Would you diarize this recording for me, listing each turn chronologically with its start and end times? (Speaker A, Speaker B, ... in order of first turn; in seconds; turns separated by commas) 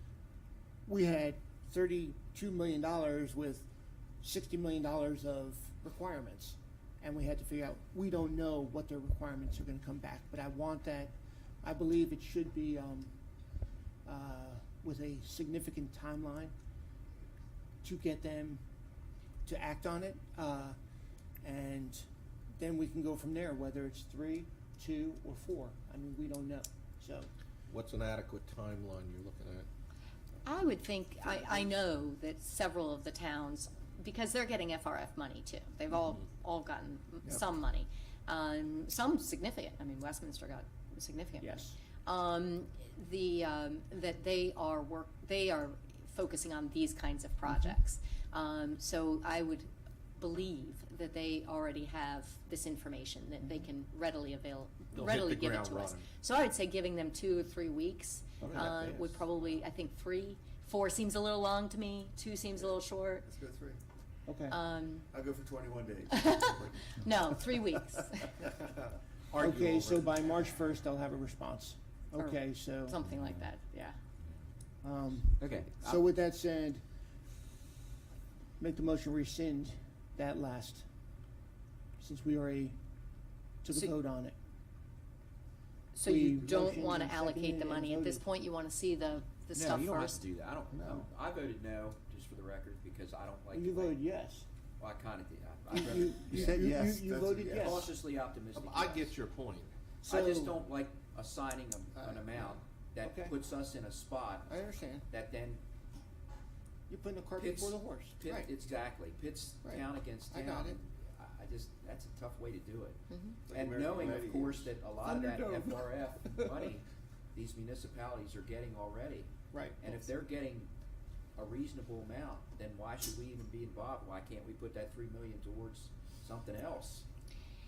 Speaker A: 0.8-3.7, Speaker A: 4.2-13.1, Speaker A: 14.1-16.5, Speaker A: 17.8-18.6, Speaker A: 19.4-20.8, Speaker A: 21.4-27.3, Speaker B: 27.7-29.7, Speaker C: 30.4-63.2, Speaker A: 41.4-41.7, Speaker B: 54.9-56.1, Speaker B: 58.4-59.2, Speaker D: 63.2-63.8, Speaker A: 64.3-64.6, Speaker C: 64.5-65.1, Speaker D: 65.1-67.1, Speaker C: 66.1-68.5, Speaker B: 69.3-70.4, Speaker A: 69.3-73.0, Speaker C: 72.2-74.0, Speaker B: 73.0-73.5, Speaker A: 74.8-76.8, Speaker E: 75.4-76.0, Speaker A: 78.6-80.9, Speaker A: 82.0-82.8, Speaker A: 83.6-84.3, Speaker C: 85.9-90.2, Speaker A: 86.0-88.2, Speaker E: 89.6-94.0, Speaker B: 89.7-90.1, Speaker D: 90.7-91.1, Speaker A: 93.5-94.5, Speaker E: 94.8-96.6, Speaker A: 95.7-97.9, Speaker D: 96.3-97.9, Speaker B: 97.6-97.9, Speaker E: 97.6-99.2, Speaker B: 98.5-99.8, Speaker A: 100.0-100.6, Speaker E: 100.1-105.6, Speaker D: 102.0-102.6, Speaker A: 103.0-103.3, Speaker A: 104.5-105.0, Speaker A: 106.9-108.5, Speaker E: 107.4-120.7, Speaker A: 109.6-110.8, Speaker C: 113.1-113.4, Speaker D: 113.5-114.7, Speaker A: 115.0-115.8, Speaker A: 119.5-120.0, Speaker E: 121.4-127.0